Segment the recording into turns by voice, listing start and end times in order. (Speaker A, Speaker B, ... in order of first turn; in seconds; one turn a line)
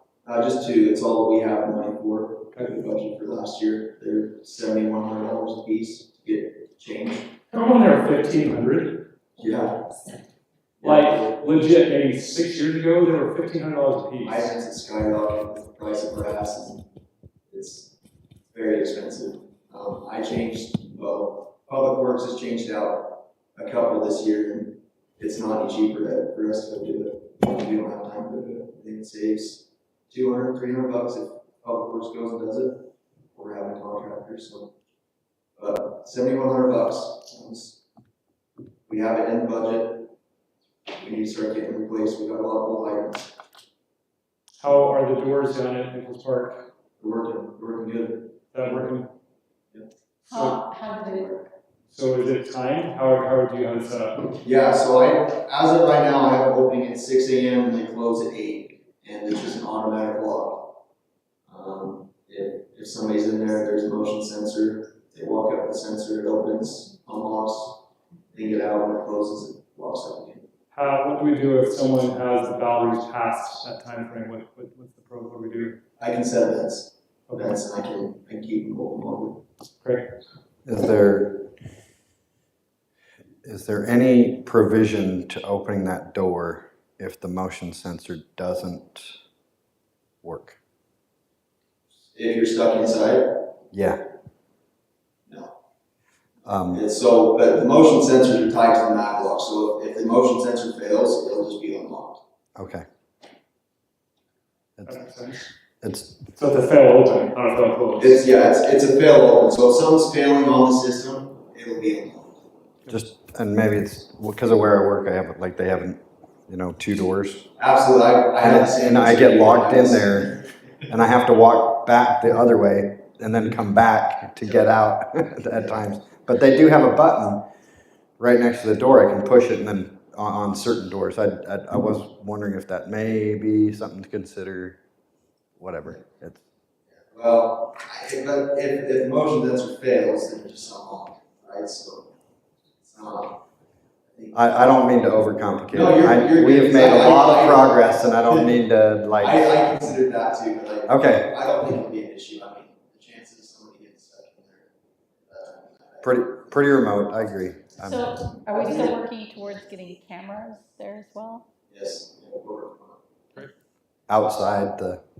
Speaker A: 0.2-7.3
Speaker B: 7.5-9.0
Speaker A: 9.4-10.0
Speaker A: 10.8-11.4
Speaker B: 10.9-14.5
Speaker A: 14.2-16.9
Speaker A: 17.5-17.9
Speaker A: 18.5-34.7
Speaker A: 35.6-37.8
Speaker A: 38.9-40.1
Speaker A: 40.9-43.3
Speaker B: 44.6-46.6
Speaker A: 47.0-48.4
Speaker B: 48.5-49.1
Speaker C: 50.3-51.5
Speaker B: 50.3-50.6
Speaker B: 51.9-54.4
Speaker A: 54.4-60.8
Speaker A: 61.5-70.5
Speaker B: 70.7-75.8
Speaker A: 76.0-79.4
Speaker B: 77.3-77.5
Speaker B: 79.8-80.1
Speaker D: 80.7-81.5
Speaker D: 83.4-89.1
Speaker D: 90.2-90.6
Speaker A: 92.1-93.5
Speaker D: 93.7-94.0
Speaker D: 96.5-96.8
Speaker A: 96.7-102.2
Speaker D: 102.6-102.8
Speaker D: 104.8-105.0
Speaker B: 104.8-105.5
Speaker D: 105.8-106.3
Speaker B: 106.4-108.2
Speaker A: 108.0-112.4
Speaker D: 112.9-117.5
Speaker A: 117.6-120.4
Speaker D: 118.4-120.3
Speaker D: 120.9-127.4
Speaker D: 128.2-134.8
Speaker D: 135.6-136.4
Speaker A: 136.9-142.1
Speaker A: 142.9-143.4
Speaker A: 144.1-144.7
Speaker D: 144.3-149.4
Speaker A: 145.7-148.5
Speaker A: 149.2-154.7
Speaker D: 150.9-151.3
Speaker A: 155.2-156.5
Speaker D: 156.0-158.2
Speaker C: 157.9-161.4
Speaker A: 161.7-163.0
Speaker D: 164.1-165.0